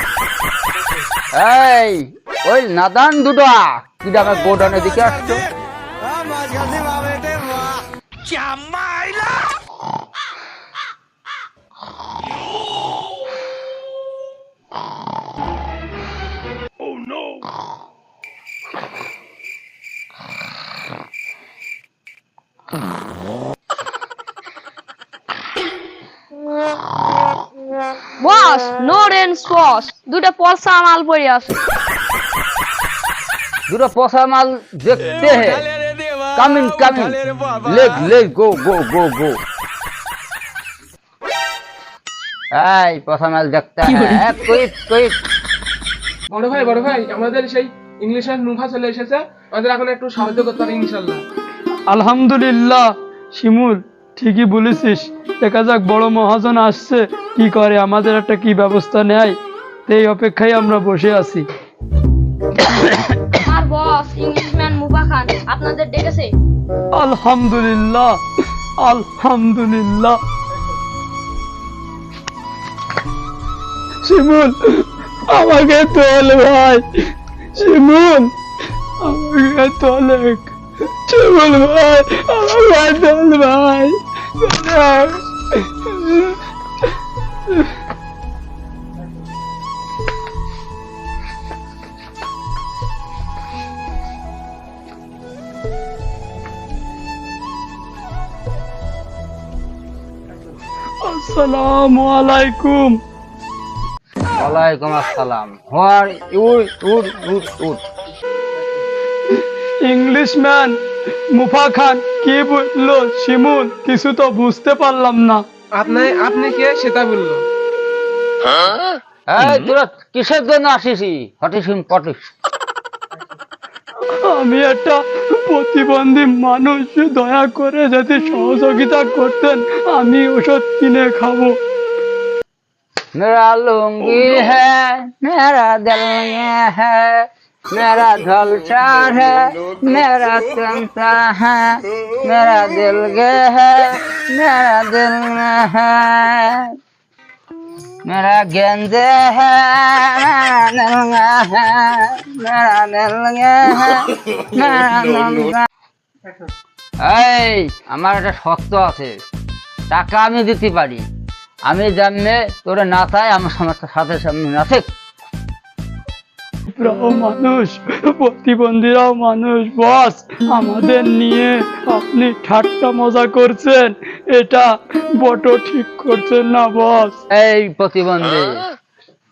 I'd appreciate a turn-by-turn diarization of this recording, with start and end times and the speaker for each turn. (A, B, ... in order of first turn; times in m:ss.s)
0:01.4-0:05.4 A
0:28.2-0:31.6 B
0:33.7-0:35.7 A
0:36.2-0:39.4 A
0:42.5-0:45.1 A
0:46.3-0:51.2 C
0:51.9-0:59.4 D
0:59.9-1:01.4 D
1:03.4-1:06.3 B
1:06.9-1:08.2 D
1:08.8-1:10.2 D
1:14.0-1:18.3 D
1:19.0-1:20.5 D
1:21.1-1:25.2 D
1:25.8-1:26.3 D
1:41.0-1:43.0 D
1:44.4-1:47.8 A
1:49.8-1:50.8 D
1:51.3-1:55.4 D
1:55.8-1:57.4 C
1:59.3-2:02.2 A
2:04.2-2:11.6 D
2:13.1-2:26.7 A
2:28.0-2:35.6 A
2:37.0-2:39.1 A
2:39.9-2:41.0 A
2:41.7-2:44.8 A
2:46.7-2:57.1 D
2:57.3-2:58.6 A